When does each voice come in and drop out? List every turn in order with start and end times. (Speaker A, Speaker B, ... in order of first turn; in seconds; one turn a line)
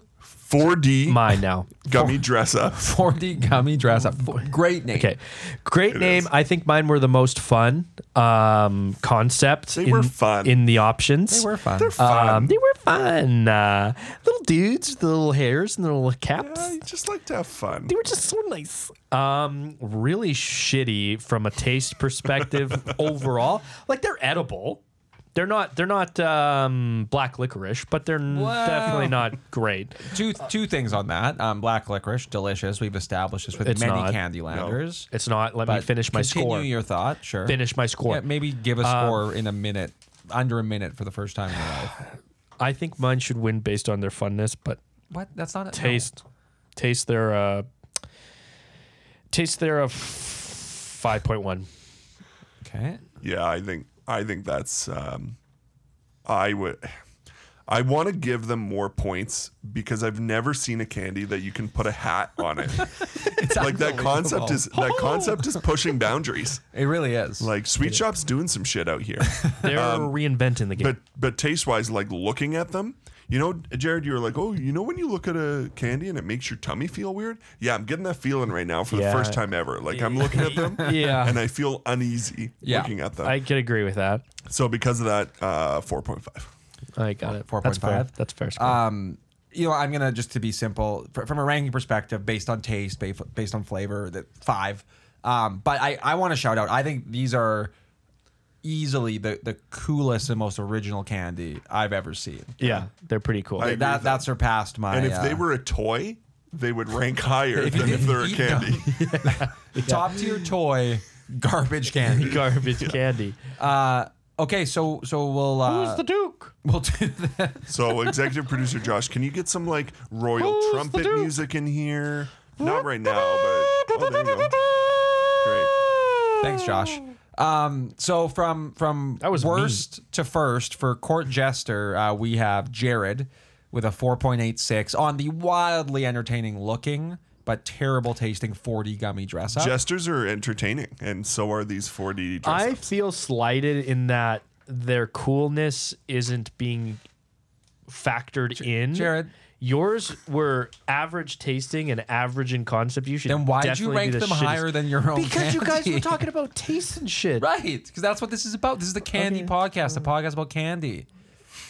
Speaker A: 0.3-2.9
Speaker B: 1.1-1.7
Speaker C: 2.7-5.1
Speaker B: 4.9-16.8
Speaker A: 5.9-6.3
Speaker A: 9.8-10.6
Speaker C: 11.3-11.9
Speaker A: 11.8-12.6
Speaker A: 16.4-17.9
Speaker B: 17.9-24.8
Speaker B: 25.4-30.1
Speaker C: 28.3-29.3
Speaker C: 30.0-35.1
Speaker B: 33.6-34.2
Speaker A: 34.5-34.8
Speaker B: 35.1-36.7
Speaker C: 35.7-42.0
Speaker B: 37.5-38.3
Speaker B: 38.8-39.2
Speaker B: 42.6-44.8
Speaker C: 45.1-46.1
Speaker B: 45.7-46.2
Speaker B: 46.8-47.7
Speaker B: 49.3-51.7
Speaker C: 52.6-53.0
Speaker A: 53.2-55.4
Speaker A: 56.3-57.0
Speaker A: 57.7-66.6
Speaker C: 62.8-65.6
Speaker C: 66.7-67.5
Speaker A: 67.4-70.2
Speaker C: 69.4-69.6
Speaker B: 69.6-71.0
Speaker A: 70.8-83.4
Speaker B: 78.9-79.4
Speaker C: 79.9-81.2
Speaker B: 80.2-81.5
Speaker C: 82.6-82.9
Speaker B: 83.2-84.3
Speaker A: 84.5-86.5
Speaker B: 87.0-88.8
Speaker C: 87.2-97.7
Speaker C: 98.6-102.8
Speaker B: 102.6-103.8
Speaker A: 103.6-104.3
Speaker C: 103.6-105.4
Speaker A: 104.9-108.9
Speaker C: 107.5-112.6
Speaker B: 109.0-110.5
Speaker B: 112.1-113.4
Speaker C: 113.6-116.0
Speaker B: 115.7-116.5
Speaker C: 116.6-118.0
Speaker A: 117.7-124.6
Speaker B: 120.4-121.4
Speaker B: 122.6-126.8
Speaker A: 125.4-125.7
Speaker C: 126.4-139.8
Speaker B: 129.2-129.8
Speaker A: 139.5-142.9
Speaker B: 142.4-147.0
Speaker B: 147.9-157.5
Speaker C: 148.6-149.3
Speaker C: 153.3-156.2
Speaker C: 157.4-161.1
Speaker B: 159.1-159.5